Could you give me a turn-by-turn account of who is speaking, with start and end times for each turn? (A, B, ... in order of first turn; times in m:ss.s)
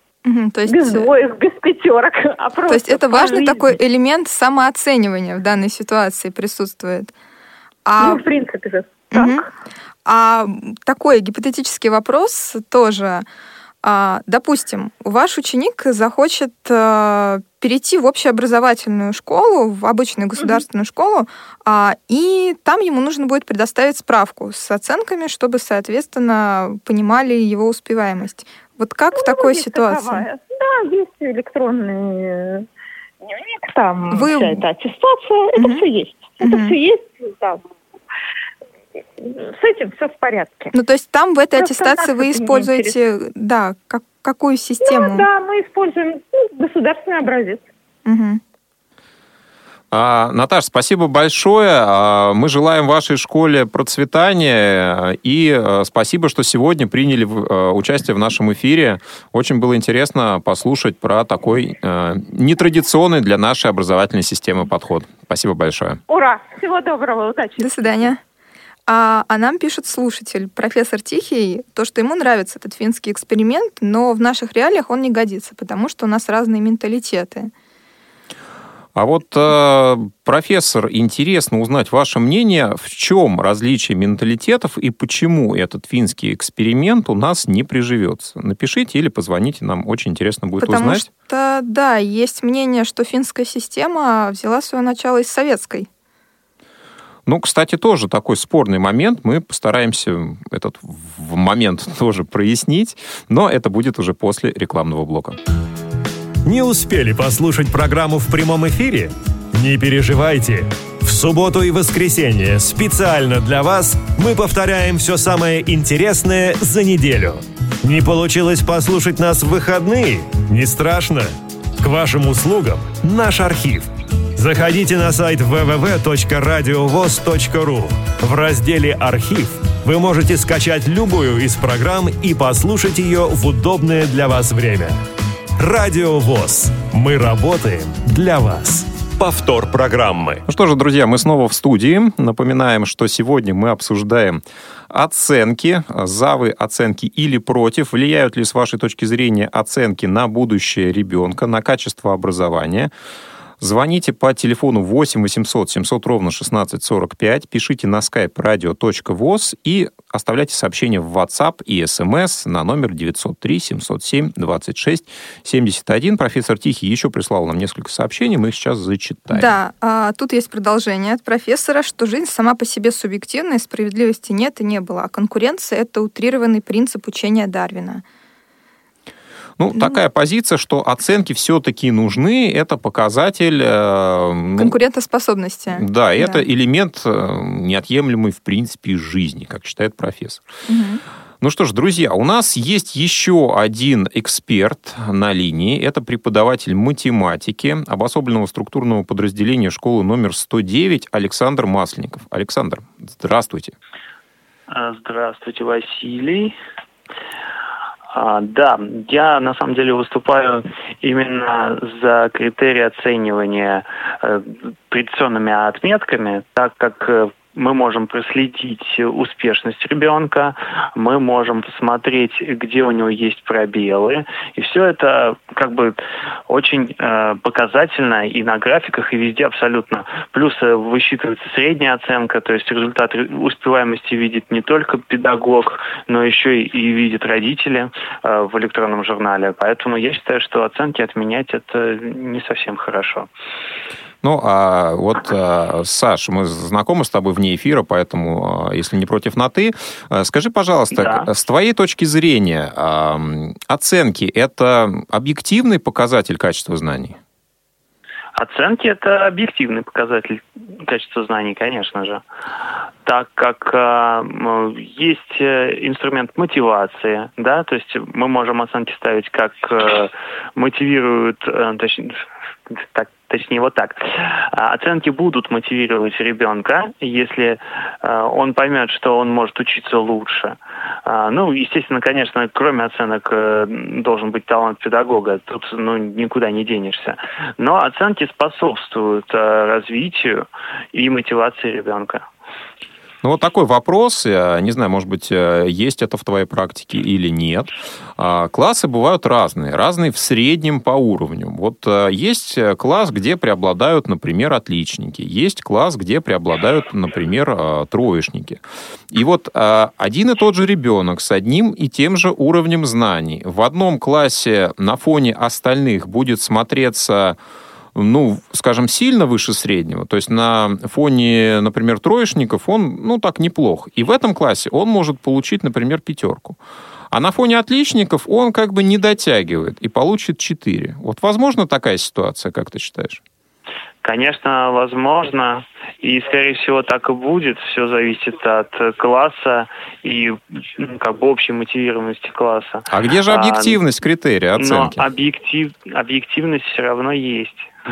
0:00.2-0:01.1 A
0:00.7-0:03.8 B
0:02.7-0:07.1 A
0:07.8-0:08.2 A
0:08.0-0:09.5 B
0:09.1-0:09.4 A
0:10.0-0:13.2 A
0:13.8-0:30.2 A
0:29.1-0:32.7 B
0:33.2-0:37.6 B
0:34.1-0:34.6 A
0:35.6-0:35.8 A
0:36.4-0:36.7 A
0:39.2-0:40.7 B
0:40.7-0:45.3 A
0:41.6-0:43.0 B
0:44.8-0:47.6 B
0:48.0-0:48.4 A
0:49.9-1:06.0 C
1:06.1-1:08.1 B
1:07.6-1:08.2 A
1:08.9-1:17.5 A
1:18.9-1:31.1 C
1:30.6-1:35.9 A
1:37.2-1:45.4 C
1:46.4-2:14.9 D
2:15.6-2:20.4 D
2:20.4-2:32.9 C
2:33.6-2:49.5 C
2:49.3-2:58.0 A
2:59.6-3:04.8 C
3:04.6-3:06.4 A
3:05.7-3:10.4 C
3:10.7-3:11.0 A
3:11.4-3:23.8 C
3:24.7-3:26.5 E
3:28.1-4:03.3 E
4:04.2-4:17.2 C
4:10.9-4:11.3 E
4:18.4-4:22.2 E
4:23.0-4:52.2 E
4:53.2-5:17.4 C
5:17.9-5:26.6 C
5:27.1-5:33.2 C
5:34.0-5:43.8 E
5:42.9-5:45.0 C
5:44.6-5:47.7 E